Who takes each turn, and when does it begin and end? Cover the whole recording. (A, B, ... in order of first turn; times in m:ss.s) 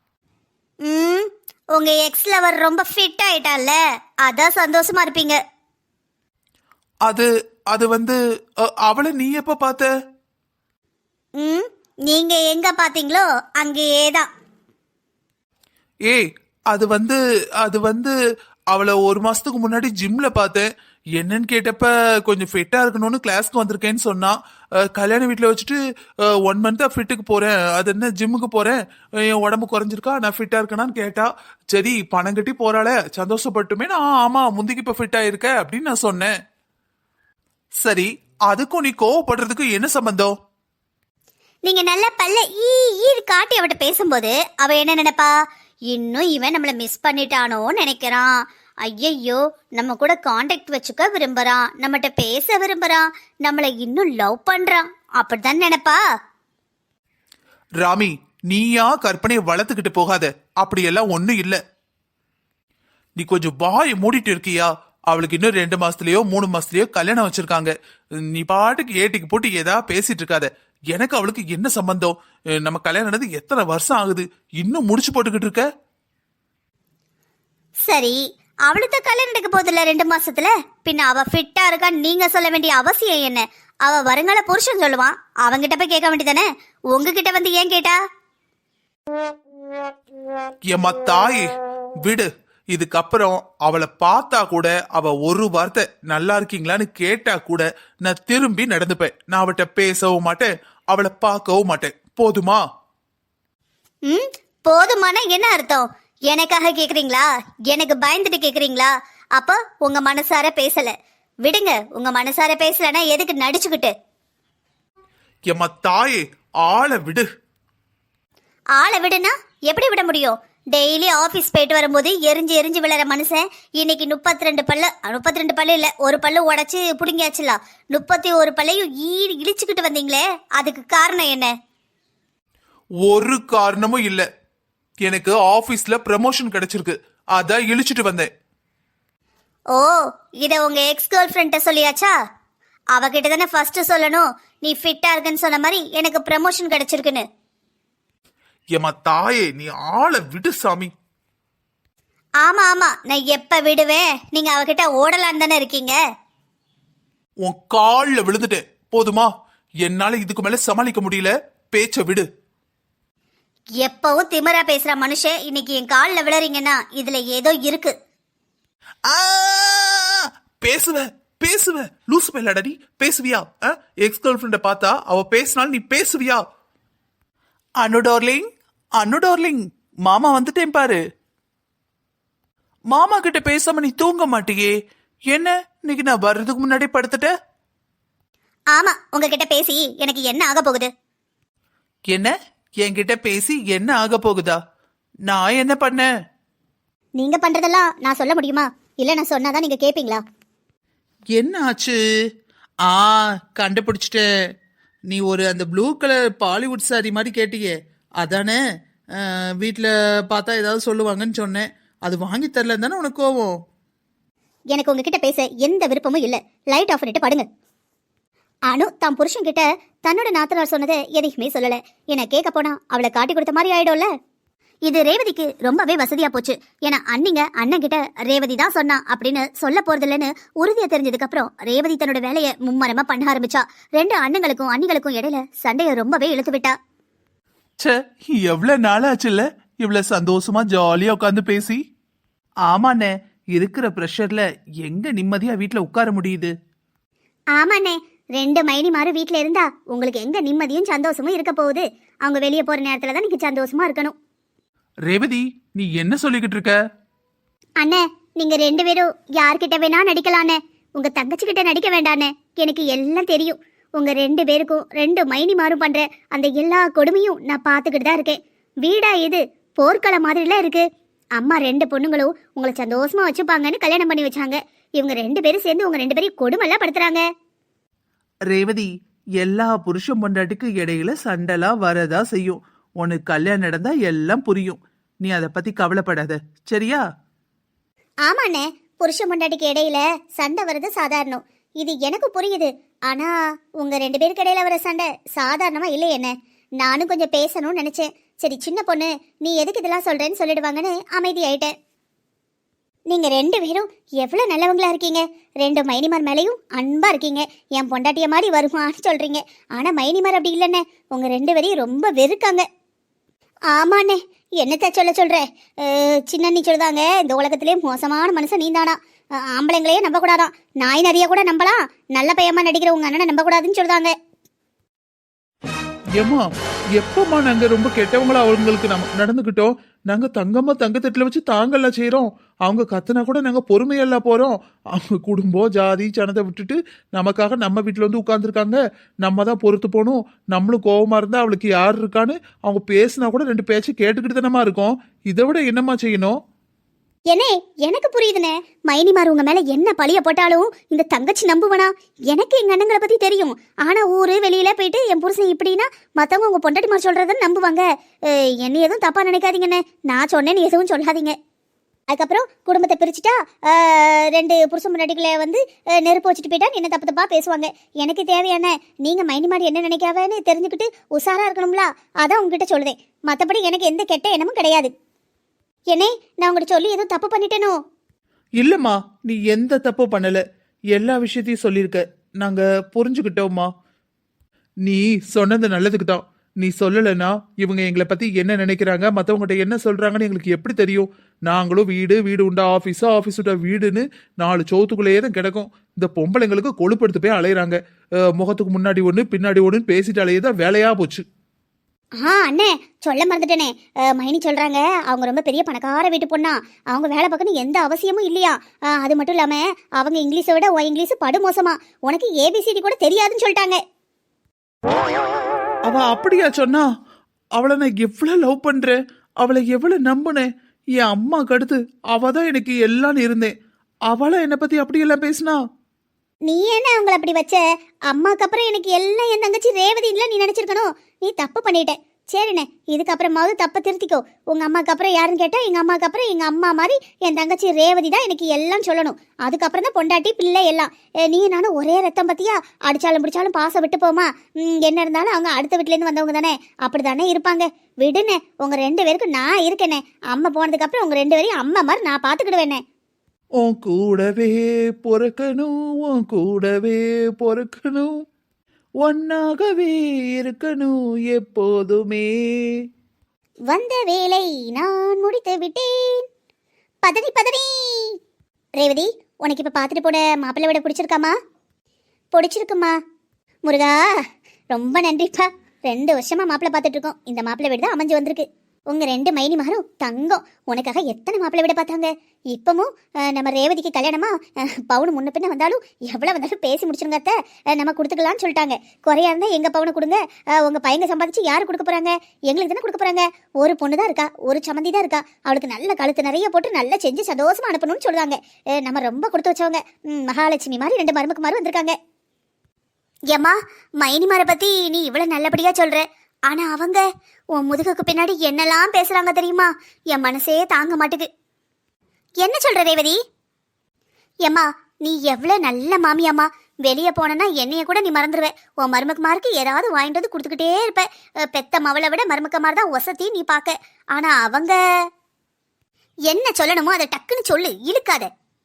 0:00.8-0:05.4 A
0:07.1-0:09.9 B
0:11.4-0:14.3 A
0:16.1-0:18.1 B
0:18.7-0:36.3 B
0:37.8-0:40.4 B
0:41.6-0:56.0 A
0:57.8-1:01.6 B
1:03.2-1:15.7 B
1:17.9-1:28.0 A
1:30.7-1:42.6 B
1:44.1-1:53.9 A
1:55.5-1:57.3 B
1:58.7-2:11.5 A
2:13.0-2:14.3 B
2:15.0-2:18.3 B
2:19.7-2:22.1 A
2:22.9-2:27.2 A
2:28.7-2:30.9 B
2:32.4-2:36.0 A
2:37.4-2:39.3 B
2:39.8-2:42.3 B
2:43.8-2:47.9 A
2:49.1-2:56.4 B
2:57.8-2:58.5 B
2:59.0-3:01.0 B
3:02.9-3:04.7 B
3:05.3-3:07.3 B
3:08.7-3:10.9 A
3:12.1-3:14.6 B
3:15.3-3:16.1 B
3:17.2-3:20.2 A
3:21.4-3:22.0 B
3:22.9-3:24.3 B
3:25.1-3:28.6 B
3:29.2-3:33.6 B
3:34.7-3:37.5 A
3:38.7-3:44.1 A
3:44.9-3:56.8 A
3:57.8-4:01.8 B
4:02.7-4:06.5 B
4:07.6-4:14.2 A
4:15.1-4:16.8 B
4:17.8-4:30.8 A
4:31.4-4:37.2 A
4:38.5-4:47.0 B
4:48.3-5:01.7 A
5:03.1-5:12.7 A
5:13.7-5:24.1 A
5:26.2-5:46.4 B
5:47.3-6:01.4 A
6:02.1-6:14.9 A
6:15.9-6:17.8 A
6:18.6-6:20.4 B
6:20.9-6:23.7 B
6:24.8-6:37.8 B
6:38.4-6:41.2 B
6:42.2-6:53.8 A
6:55.9-6:56.9 B
6:57.6-7:03.5 B
7:04.1-7:05.6 B
7:06.5-7:32.8 A
7:33.6-7:38.2 B
7:39.0-7:42.8 B
7:43.7-7:46.3 A
7:47.0-7:48.2 A
7:48.8-7:51.4 A
7:52.3-7:53.0 A
7:53.7-8:22.0 A
8:23.3-8:31.3 A
8:32.4-8:33.2 A
8:34.5-8:44.8 A
8:46.3-8:48.3 A